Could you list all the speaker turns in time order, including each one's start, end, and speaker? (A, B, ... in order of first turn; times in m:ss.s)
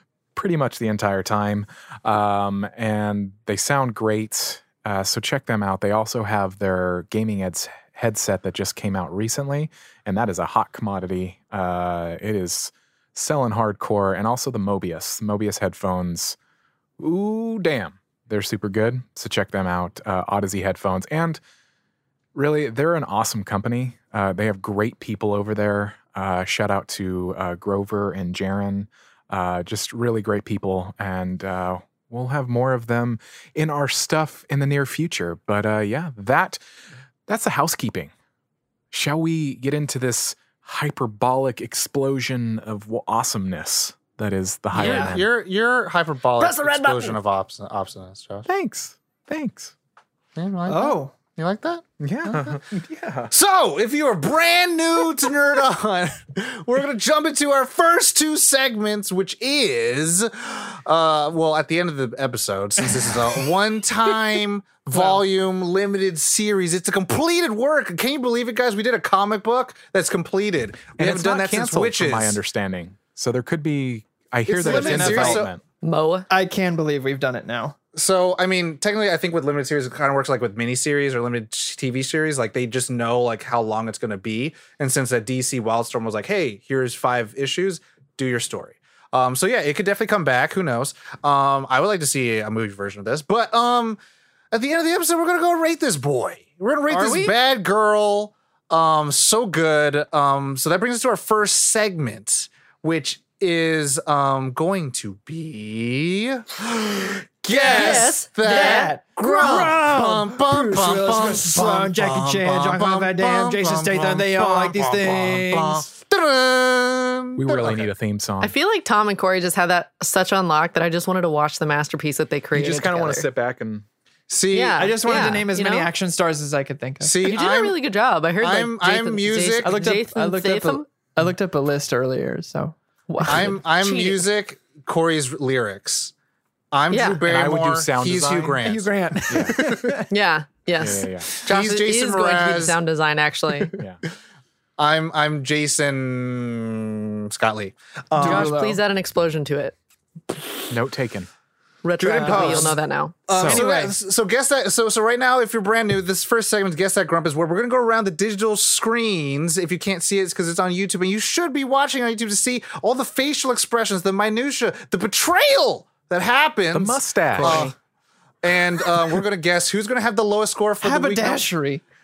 0:00.3-0:16.4 A
0:17.0-0:21.4 A
0:22.3-0:36.6 A
0:37.3-0:38.1 A
0:38.9-0:45.3 A
0:44.7-0:48.5 B
0:44.8-0:45.1 C
0:46.4-0:46.8 C
0:46.4-0:47.1 D
0:48.4-0:49.7 A
0:50.4-0:51.8 B
0:50.7-0:51.1 C
0:52.0-0:53.3 A
0:53.3-1:12.4 B
1:04.9-1:05.2 C
1:11.0-1:15.6 A
1:14.5-1:15.5 B
1:14.6-1:15.5 C
1:15.8-1:16.3 D
1:16.3-1:17.8 C
1:17.9-1:34.0 B
1:34.5-1:57.9 B
1:36.9-1:37.4 C
1:47.5-1:55.8 C
1:47.5-1:48.9 D
1:57.4-1:58.5 A
1:58.4-2:03.3 D
2:02.5-2:03.8 A
2:04.3-2:04.9 B
2:04.5-2:05.9 D
2:04.8-2:07.2 C
2:07.0-2:07.7 B
2:07.2-2:10.9 D
2:08.4-2:09.8 B
2:09.6-2:13.4 C
2:13.1-2:14.2 D
2:13.2-2:16.1 B
2:16.7-2:18.9 B
2:16.9-2:17.2 D
2:17.2-2:18.6 A
2:18.6-2:20.1 C
2:19.3-2:20.0 A
2:20.1-2:23.7 D
2:20.8-2:21.3 A
2:21.4-2:22.8 B
2:24.8-2:28.5 B
2:28.2-2:28.8 C
2:28.2-2:29.7 D
2:30.7-2:31.3 A
2:31.8-2:33.2 D
2:32.0-2:47.7 B
2:32.1-2:32.7 C
2:33.4-2:33.6 A
2:33.4-2:33.9 C
2:46.7-2:47.7 A
2:47.4-2:47.7 D
2:48.4-2:51.4 B
2:50.8-2:51.8 C